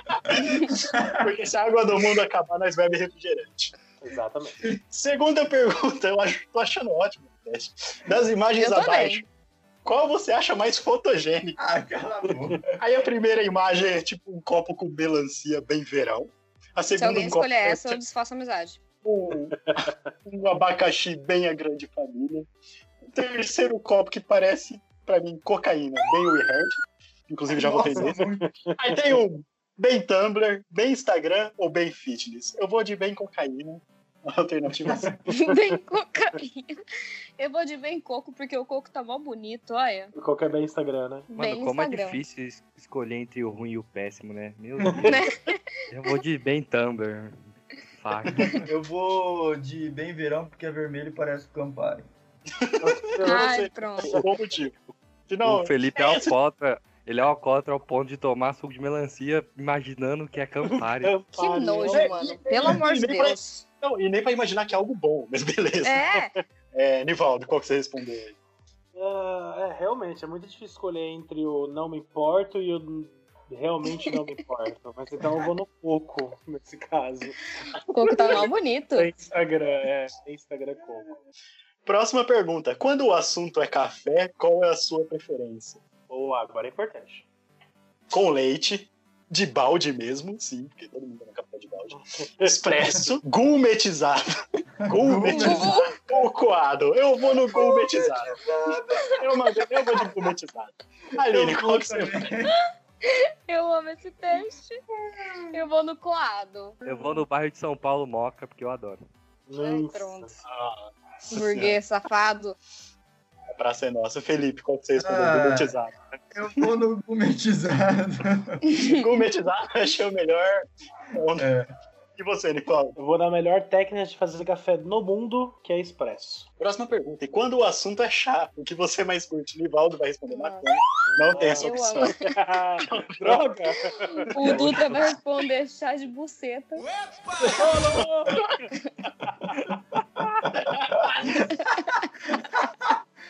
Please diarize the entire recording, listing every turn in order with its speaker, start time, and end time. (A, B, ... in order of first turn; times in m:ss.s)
0:00.6-0:03.7 A
0:00.9-0:01.2 B
0:04.0-0:04.6 C
0:04.9-0:09.2 A
0:08.6-0:09.2 D
0:09.8-0:11.6 A
0:11.6-0:12.7 B
0:12.3-0:12.6 C
0:12.8-0:18.0 A
0:17.0-0:18.8 D
0:19.0-0:19.6 A
0:19.3-0:20.0 C
0:20.2-0:22.5 A
0:23.1-0:26.8 A
0:27.3-0:28.2 A
0:27.5-0:28.6 B
0:28.0-0:29.1 C
0:28.8-0:35.1 A
0:34.8-0:35.2 B
0:35.3-0:36.7 D
0:35.3-0:35.7 C
0:37.4-0:40.1 D
0:40.1-0:41.3 C
0:41.3-0:42.2 D
0:41.3-0:45.2 E
0:44.9-0:45.2 C
0:45.0-0:45.6 D
0:45.9-0:47.4 E
0:48.0-0:48.5 E
0:48.6-0:52.0 B
0:52.6-0:54.7 A
0:52.8-0:54.7 C
0:53.2-0:54.2 D
0:55.3-0:56.4 A
0:55.4-1:01.2 E
1:00.6-1:02.2 C
1:01.4-1:03.6 D
1:01.9-1:06.0 A
1:05.8-1:06.3 D
1:06.7-1:08.3 A
1:08.9-1:17.4 C
1:17.9-1:19.1 D
1:18.0-1:21.2 C
1:21.8-1:25.8 A
1:26.1-1:27.2 C
1:28.1-1:34.2 A
1:31.9-1:32.6 C
1:34.8-1:36.2 B
1:34.8-1:38.3 A
1:35.3-1:36.0 D
1:37.6-1:39.2 B
1:39.2-1:42.2 A
1:41.2-1:42.5 B
1:43.0-1:44.8 D
1:45.2-1:45.6 B
1:45.5-1:47.1 D
1:46.8-1:49.0 E
1:49.5-1:50.3 C
1:49.6-1:50.3 D
1:50.4-1:51.8 A
1:51.3-1:52.6 D
1:53.6-1:56.0 A
1:55.0-1:55.7 B
1:56.3-1:58.6 B
1:58.6-1:59.0 D
1:58.8-2:01.5 A
2:01.4-2:01.7 B
2:02.2-2:03.0 A
2:03.0-2:06.5 C
2:06.6-2:12.1 A
2:10.3-2:10.7 D
2:11.1-2:14.6 C
2:11.6-2:12.2 D
2:12.8-2:13.5 A
2:14.2-2:16.9 D
2:14.4-2:14.8 E
2:17.4-2:18.6 C
2:20.6-2:21.8 B
2:22.5-2:23.0 B